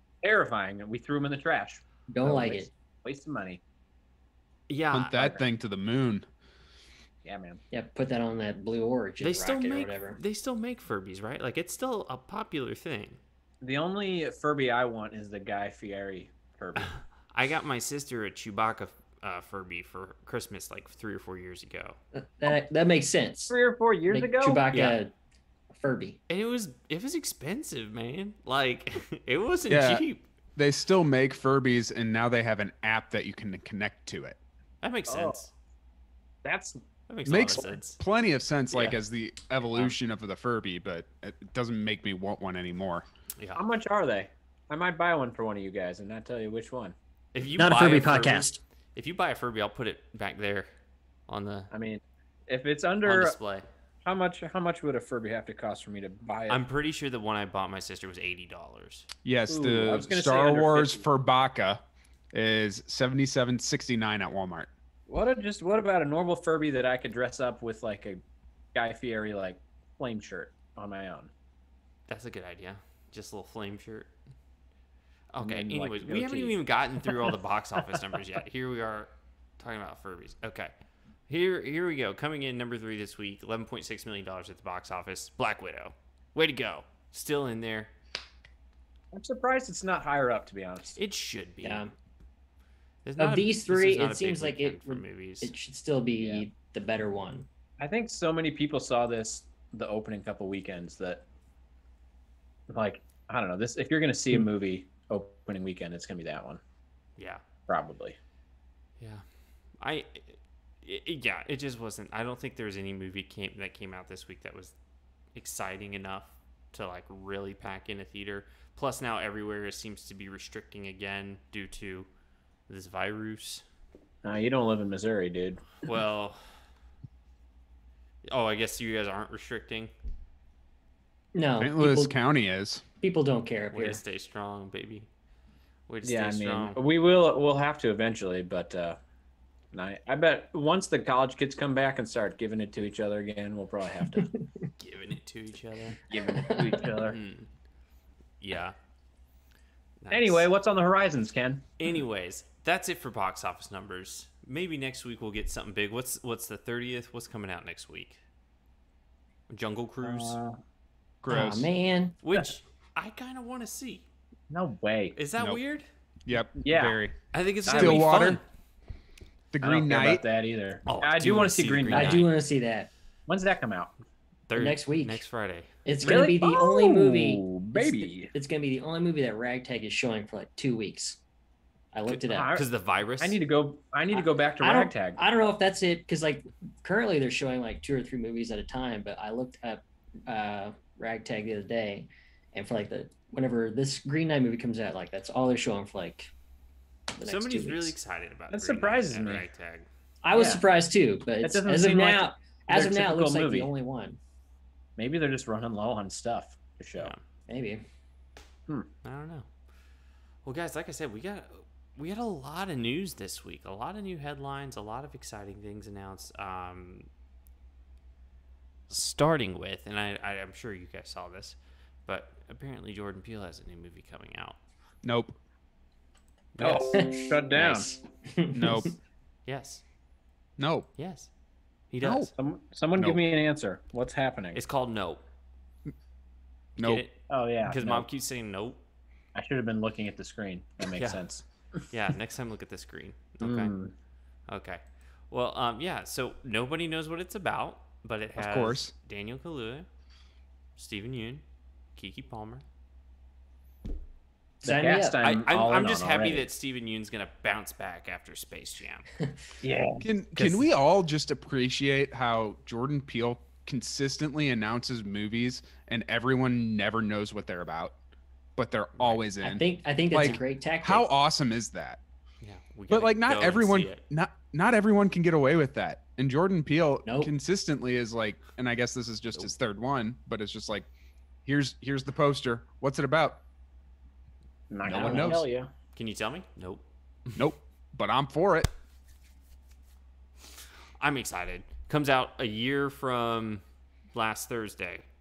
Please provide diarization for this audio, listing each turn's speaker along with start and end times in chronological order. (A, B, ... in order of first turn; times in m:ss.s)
0:00.2-0:03.6 A
0:02.1-0:02.7 B
0:04.7-0:05.5 C
0:04.9-0:06.2 D
0:07.2-0:07.6 A
0:07.7-0:10.2 B
0:09.2-0:13.2 C
0:13.6-0:17.0 A
0:16.8-0:22.0 C
0:22.2-0:23.6 B
0:23.5-0:24.7 A
0:24.1-0:25.1 B
0:24.7-0:25.0 C
0:25.8-0:26.2 B
0:26.3-0:30.2 C
0:29.7-0:30.0 D
0:30.6-0:34.4 D
0:34.8-0:35.5 C
0:35.1-0:35.4 A
0:36.4-0:36.8 A
0:37.1-0:38.0 C
0:37.2-0:43.0 D
0:43.6-0:47.0 A
0:47.3-0:50.7 C
0:47.6-0:48.6 B
0:51.3-0:51.7 C
0:51.7-0:53.4 A
0:53.0-0:53.7 C
0:54.0-0:56.6 A
0:56.5-0:59.1 C
0:59.2-1:04.7 D
0:59.5-1:01.0 A
1:05.1-1:08.2 A
1:08.7-1:11.3 A
1:12.1-1:14.1 C
1:15.3-1:20.7 C
1:15.4-1:16.6 A
1:17.1-1:17.3 A
1:21.3-1:27.9 C
1:29.1-1:31.0 A
1:31.0-1:31.9 C
1:31.6-1:31.9 B
1:33.0-1:35.5 C
1:33.2-1:37.5 B
1:36.2-1:36.4 A
1:37.8-1:41.2 A
1:42.7-1:46.6 A
1:47.2-1:47.4 C
1:47.7-1:48.2 A
1:49.0-1:49.2 C
1:49.8-1:54.7 C
1:55.4-2:02.1 C
2:02.7-2:03.6 C
2:04.2-2:05.7 A
2:05.8-2:06.4 C
2:08.3-2:09.9 C
2:11.4-2:12.1 B
2:11.6-2:12.8 D
2:13.0-2:14.0 B
2:13.7-2:15.1 C
2:15.9-2:16.8 C
2:16.0-2:19.0 A
2:19.7-2:24.3 A
2:24.2-2:24.7 B
2:24.8-2:27.5 C
2:26.1-2:27.2 A
2:26.3-2:26.8 B
2:28.4-2:28.8 C
2:30.0-2:30.5 C
2:30.1-2:31.6 A
2:31.8-2:38.2 C
2:39.5-2:40.4 C
2:40.0-2:40.6 A
2:41.2-2:41.7 D
2:41.3-2:42.2 B
2:42.2-2:44.1 C
2:44.5-2:45.2 A
2:45.2-2:45.9 C
2:46.3-2:48.4 D
2:46.6-2:47.0 A
2:47.3-2:48.4 C
2:47.7-2:48.0 A
2:49.5-2:50.2 D
2:49.6-2:52.3 A
2:50.9-2:52.3 C
2:51.9-2:52.9 B
2:53.3-2:53.9 A
2:54.5-2:55.8 C
2:54.6-2:55.2 B
2:55.9-3:01.2 B
2:56.0-2:58.3 A
3:01.9-3:02.5 B
3:02.1-3:03.4 C
3:02.2-3:02.7 A
3:03.2-3:05.2 A
3:04.1-3:16.3 B
3:17.2-3:18.0 B
3:17.2-3:19.9 C
3:18.5-3:19.5 A
3:20.2-3:24.2 B
3:20.3-3:20.6 A
3:21.4-3:23.7 A
3:25.0-3:27.1 A
3:27.0-3:27.2 C
3:27.5-3:27.8 B
3:29.0-3:29.5 C
3:30.4-3:37.1 C
3:38.9-3:44.6 C
3:45.0-3:45.4 D
3:46.6-3:48.0 C
3:46.6-3:48.0 A
3:48.3-3:48.9 B
3:48.5-3:49.0 D
3:49.5-3:49.8 C
3:50.6-3:50.9 D
3:51.0-3:51.3 C
3:51.9-3:52.3 C
3:52.0-3:52.3 D
3:52.4-3:54.6 A
3:53.0-3:53.2 D
3:54.6-3:55.2 C
3:56.8-3:57.0 D
3:56.8-3:58.8 C
3:57.3-3:58.1 A
3:59.4-4:01.8 A
4:00.9-4:01.2 C
4:01.9-4:03.7 C
4:03.4-4:03.9 A
4:04.5-4:09.9 C
4:08.4-4:08.9 D
4:10.8-4:11.4 C
4:12.0-4:12.6 C
4:14.6-4:15.2 B
4:14.6-4:16.5 A
4:15.2-4:19.1 C
4:19.6-4:20.1 A
4:20.0-4:28.0 D
4:20.4-4:20.6 C
4:28.6-4:32.0 D
4:29.0-4:29.2 C
4:29.4-4:31.1 B
4:30.2-4:30.4 C
4:32.4-4:34.0 C
4:32.9-4:40.9 D
4:37.0-4:37.3 B
4:41.4-4:43.4 D
4:44.7-4:45.7 A
4:44.9-4:45.4 D
4:44.9-4:45.4 B
4:46.0-4:47.4 C
4:47.4-4:48.7 D
4:51.0-4:53.6 C
4:54.1-4:55.0 C